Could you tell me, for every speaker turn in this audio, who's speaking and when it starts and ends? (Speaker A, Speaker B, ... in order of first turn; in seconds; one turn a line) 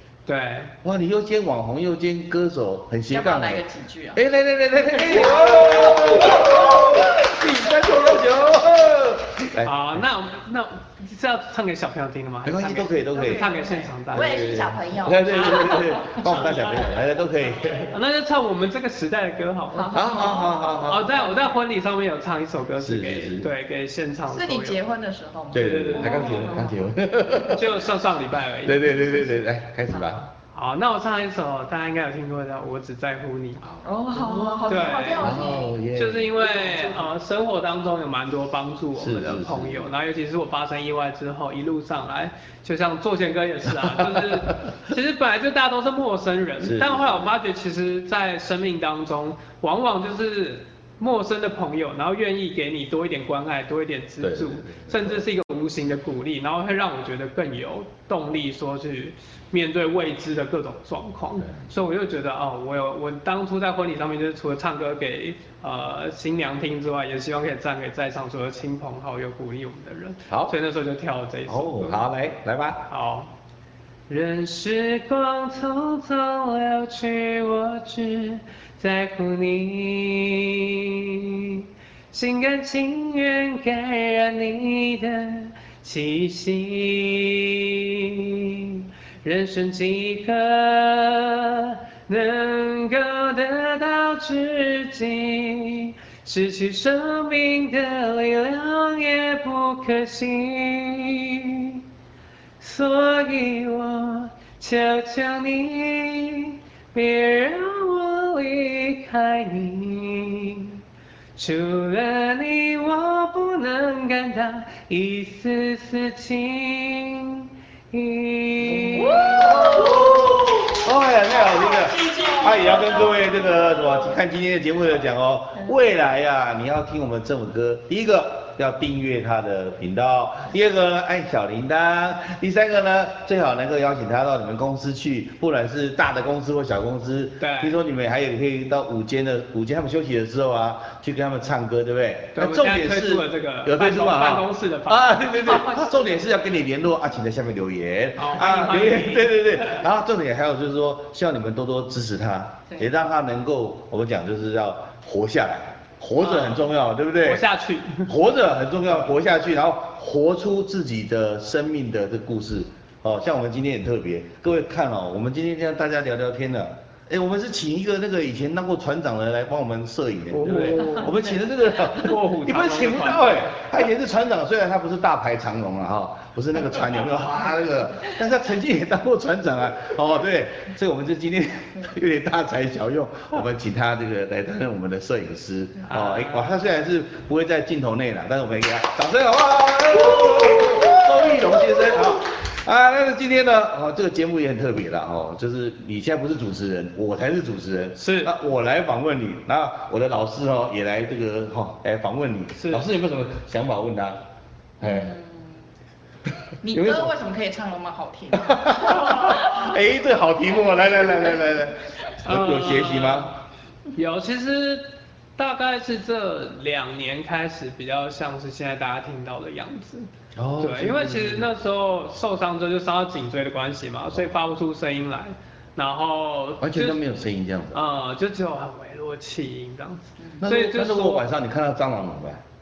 Speaker A: 0.2-0.7
Speaker B: 0.8-3.6
Speaker C: 3.1-4.2
Speaker B: 4.1-10.0
Speaker C: 4.8-7.2
Speaker A: 9.6-14.5
Speaker B: 12.4-13.5
Speaker C: 13.1-16.9
Speaker B: 14.1-17.9
Speaker A: 17.9-20.0
Speaker C: 19.7-21.5
Speaker B: 19.9-21.1
Speaker A: 20.8-24.8
Speaker B: 22.8-23.5
Speaker C: 24.3-26.8
Speaker B: 25.5-27.9
Speaker A: 25.5-26.5
Speaker A: 27.5-28.9
Speaker B: 28.6-30.2
Speaker C: 29.9-30.2
Speaker A: 30.5-33.6
Speaker B: 33.6-36.9
Speaker C: 33.8-35.8
Speaker A: 34.7-72.0
Speaker B: 39.0-39.9
Speaker B: 43.8-44.7
Speaker B: 46.6-47.3
Speaker B: 54.2-55.2
Speaker B: 70.3-70.5
Speaker B: 71.5-72.9
Speaker A: 72.9-73.3
Speaker A: 74.1-101.8
Speaker A: 102.6-110.8
Speaker A: 111.3-119.8
Speaker B: 118.7-157.4
Speaker C: 118.9-124.1
Speaker A: 137.4-137.8
Speaker A: 142.3-145.6
Speaker C: 145.4-146.2
Speaker A: 148.2-149.8
Speaker A: 156.2-156.7
Speaker A: 157.2-158.1
Speaker B: 158.1-204.2
Speaker A: 170.3-171.2
Speaker C: 170.7-171.2
Speaker A: 171.7-173.6
Speaker A: 185.9-186.5
Speaker A: 198.0-198.3
Speaker A: 202.6-202.8
Speaker B: 204.8-205.1
Speaker C: 204.8-205.6
Speaker C: 206.6-209.7
Speaker B: 206.7-207.1
Speaker B: 208.3-213.3
Speaker A: 212.2-213.3
Speaker A: 213.9-227.0
Speaker B: 220.3-221.5
Speaker B: 226.6-227.8
Speaker A: 227.7-231.2
Speaker B: 230.4-232.4